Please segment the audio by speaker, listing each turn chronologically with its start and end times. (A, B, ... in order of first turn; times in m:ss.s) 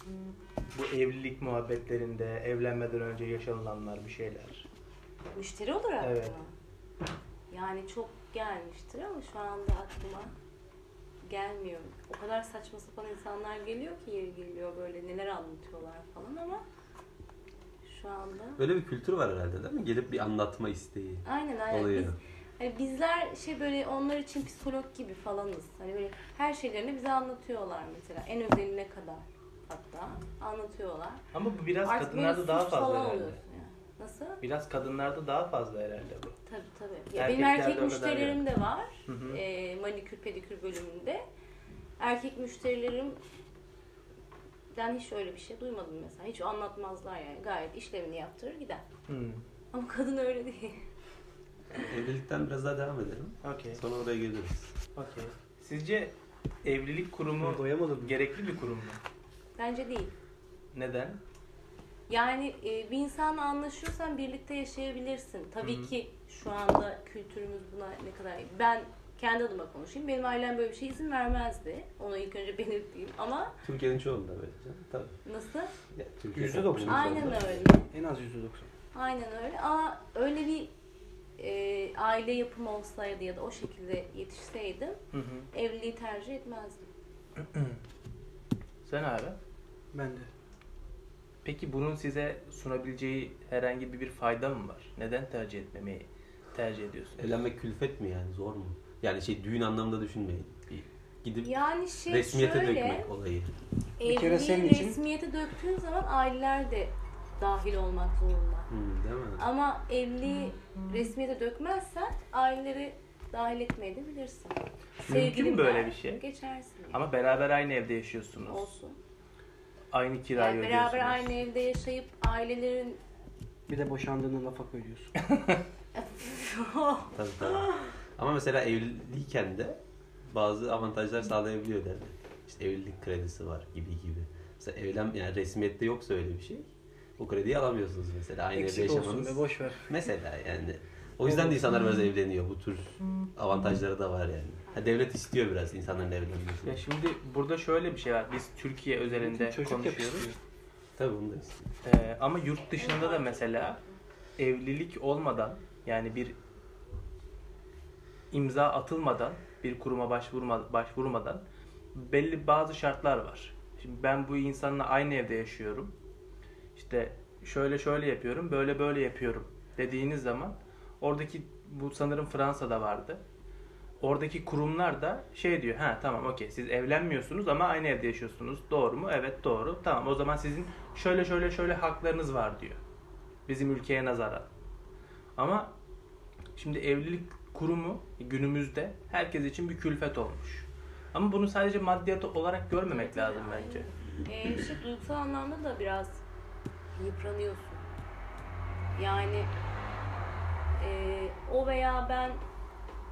0:00.7-0:04.6 A
0:05.3-0:06.5 B
0:06.0-0:06.4 A
0:07.5-0:10.3 B
0:11.2-0:16.6 B
0:17.8-0:18.6 B
0:18.6-0:22.2 C
0:21.2-0:31.2 B
0:31.3-0:33.4 A
0:31.8-0:34.4 B
0:34.4-0:36.3 A
0:36.4-0:41.2 B
0:37.1-0:38.4 A
0:39.1-0:39.4 A
0:42.0-0:43.2 B
0:44.7-0:48.8 B
0:49.1-0:49.4 A
0:49.7-0:50.8 B
0:51.7-0:54.7 C
0:53.4-0:53.8 A
0:54.9-0:56.1 A
0:56.6-0:59.0 A
0:57.4-0:58.1 D
0:59.6-1:00.1 B
1:00.7-1:01.2 A
1:02.1-1:13.6 B
1:05.6-1:05.9 A
1:13.6-1:15.2 C
1:15.2-1:15.7 B
1:15.9-1:17.6 C
1:16.3-1:18.7 D
1:16.8-1:17.9 B
1:18.9-1:20.7 B
1:21.4-1:25.0 B
1:25.1-1:25.5 A
1:25.5-1:26.9 B
1:27.4-1:27.8 A
1:28.8-1:29.4 A
1:29.9-1:30.3 D
1:31.4-1:37.2 A
1:37.2-1:40.6 C
1:41.2-1:41.5 C
1:41.4-1:43.1 B
1:42.0-1:43.5 C
1:44.0-1:48.7 B
1:44.0-1:45.0 D
1:48.7-1:49.4 C
1:49.4-1:57.0 B
1:55.0-1:56.2 A
1:56.9-1:58.7 A
1:58.4-1:59.0 B
1:59.9-2:01.3 A
2:00.3-2:03.0 B
2:03.7-2:05.1 D
2:05.3-2:05.6 A
2:05.9-2:07.9 B
2:07.1-2:26.8 C
2:18.5-2:19.9 D
2:21.2-2:21.6 D
2:26.6-2:30.3 A
2:29.2-2:30.4 D
2:31.0-2:31.7 C
2:31.8-2:33.8 A
2:32.8-2:33.9 B
2:34.4-2:36.4 A
2:38.3-2:41.4 A
2:41.9-2:45.9 A
2:46.7-2:53.2 A
2:54.0-3:02.8 A
3:03.5-3:04.5 A
3:05.4-3:05.7 A
3:06.6-3:13.9 A
3:12.9-3:16.2 B
3:17.0-3:17.8 B
3:19.0-3:19.5 B
3:20.8-3:22.4 B